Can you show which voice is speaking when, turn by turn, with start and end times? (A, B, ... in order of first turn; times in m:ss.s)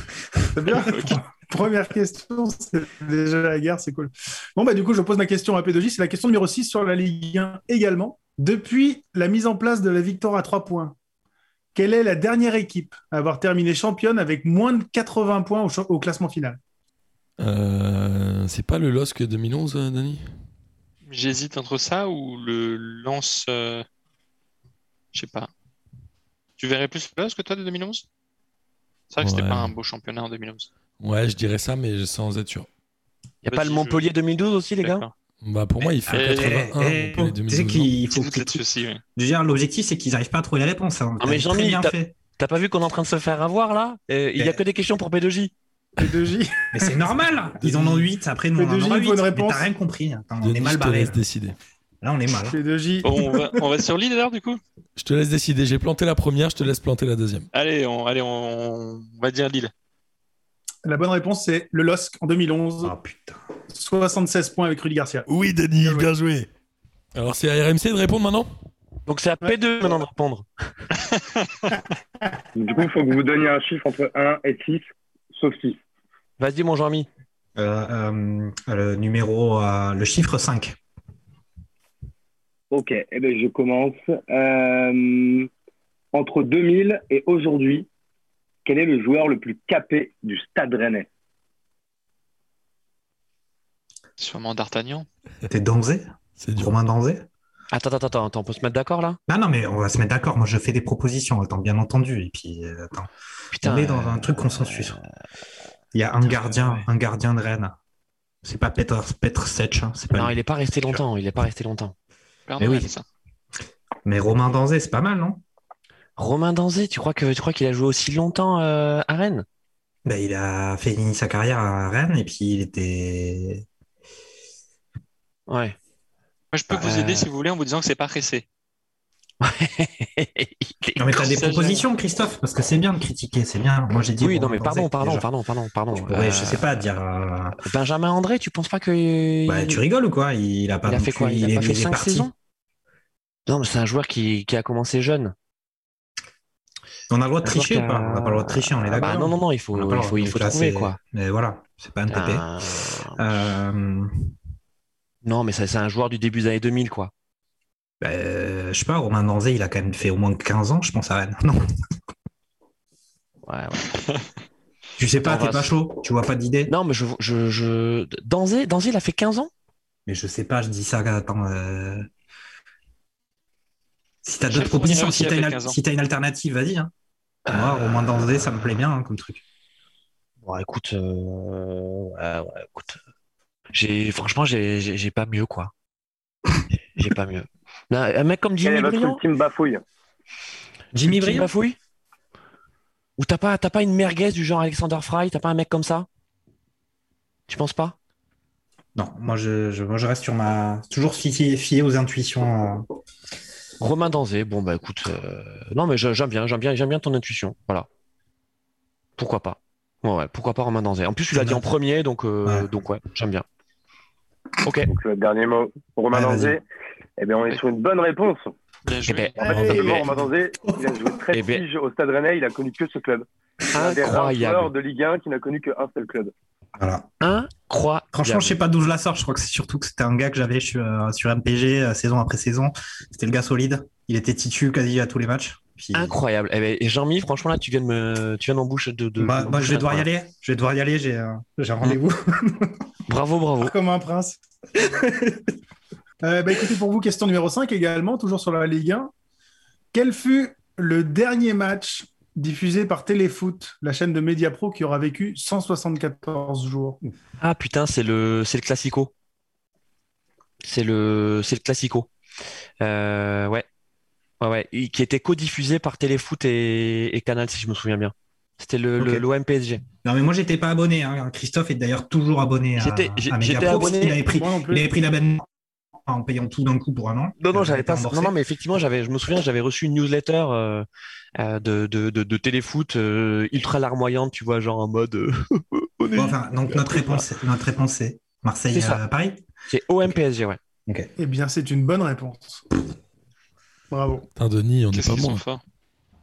0:00.5-0:10.9 A
0:11.7-0:16.6 A
0:17.4-0:20.3 B
0:21.1-0:23.8 C
0:25.1-0:25.5 C
0:26.6-0:28.0 C
0:29.1-0:30.7 C
0:29.2-0:29.7 B
0:31.0-0:32.7 B
0:33.4-0:35.0 D
0:33.4-0:34.0 C
0:34.8-0:35.1 C
0:35.4-0:37.9 B
0:36.1-0:38.6 E
0:36.1-0:36.6 C
0:38.1-0:39.0 C
0:39.2-0:42.1 E
0:41.2-0:45.5 D
0:46.0-0:47.0 A
0:46.7-0:51.2 E
0:48.6-0:49.7 A
0:50.4-0:51.6 B
0:52.0-0:52.6 E
0:52.4-0:53.6 A
0:53.0-0:54.6 C
0:55.0-0:57.5 B
0:57.5-0:59.7 C
1:00.8-1:02.9 A
1:02.8-1:03.4 E
1:03.7-1:05.3 A
1:05.3-1:06.5 B
1:05.8-1:06.1 A
1:07.1-1:08.5 B
1:09.1-1:10.4 D
1:12.5-1:15.8 F
1:16.4-1:17.1 D
1:17.6-1:20.8 E
1:22.7-1:25.5 F
1:26.1-1:27.9 F
1:28.6-1:31.1 F
1:34.2-1:35.1 C
1:35.5-1:37.2 E
1:36.4-1:36.7 B
1:37.7-1:39.2 D
1:39.3-1:43.1 E
1:43.5-1:45.0 D
1:43.6-1:45.0 E
1:45.9-1:47.8 E
1:46.3-1:46.8 D
1:48.4-1:50.4 E
1:50.1-1:51.9 D
1:52.5-1:53.0 C
1:52.6-1:52.9 E
1:54.0-1:55.4 E
1:56.2-1:59.4 D
2:00.0-2:03.6 E
2:05.5-2:05.8 D
2:06.5-2:08.4 C
2:06.7-2:07.3 D
2:09.4-2:11.3 D
2:11.0-2:15.3 E
2:11.2-2:11.8 C
2:14.2-2:16.7 D
2:15.9-2:17.6 E
2:17.6-2:19.8 D
2:19.5-2:22.3 E
2:20.8-2:22.3 D
2:23.5-2:25.3 D
2:27.1-2:32.5 E
2:27.4-2:31.0 D
2:32.1-2:33.4 D
2:33.2-2:34.3 E
2:35.2-2:37.1 D
2:38.0-2:41.6 E
2:43.4-2:44.0 D
2:45.0-2:46.7 E
2:45.2-2:45.7 D
2:46.7-2:49.5 D
2:50.0-2:52.1 E
2:54.2-2:56.9 E
2:54.5-2:55.8 C
2:57.5-2:59.4 E
2:57.5-2:57.9 D
3:00.4-3:03.0 D
3:03.7-3:05.7 D
3:06.9-3:09.2 D
3:08.6-3:09.8 F
3:10.9-3:11.5 E
3:11.1-3:11.8 D
3:13.2-3:16.1 D
3:17.5-3:18.0 D
3:18.9-3:22.8 E
3:23.8-3:27.9 D
3:29.2-3:33.4 D
3:31.3-3:31.6 E
3:34.6-3:34.9 D
3:34.9-3:36.6 F
3:36.1-3:36.6 E
3:37.2-3:38.5 F
3:38.8-3:40.0 C
3:39.0-3:40.0 D
3:39.4-3:46.3 F
3:39.4-3:40.0 A
3:41.3-3:41.6 D
3:43.7-3:44.7 D
3:46.8-3:47.1 E
3:47.2-3:48.6 D
3:48.1-3:56.2 E
3:55.9-4:00.1 D
3:59.2-4:02.2 E
4:03.1-4:03.7 D
4:03.6-4:04.4 A
4:06.2-4:09.1 A
4:09.9-4:17.0 A
4:17.4-4:19.1 D
4:20.6-4:22.1 D
4:22.8-4:23.6 D
4:24.4-4:29.8 D
4:29.0-4:29.2 E
4:30.0-4:35.5 E
4:32.8-4:34.2 D
4:34.2-4:34.9 A
4:36.1-4:38.3 E
4:37.4-4:47.2 D
4:46.1-4:49.4 E
4:48.7-4:49.0 D
4:49.7-4:50.6 D
4:51.2-4:52.6 A
4:53.9-4:54.3 A
4:54.4-4:55.4 B
4:54.9-4:55.6 C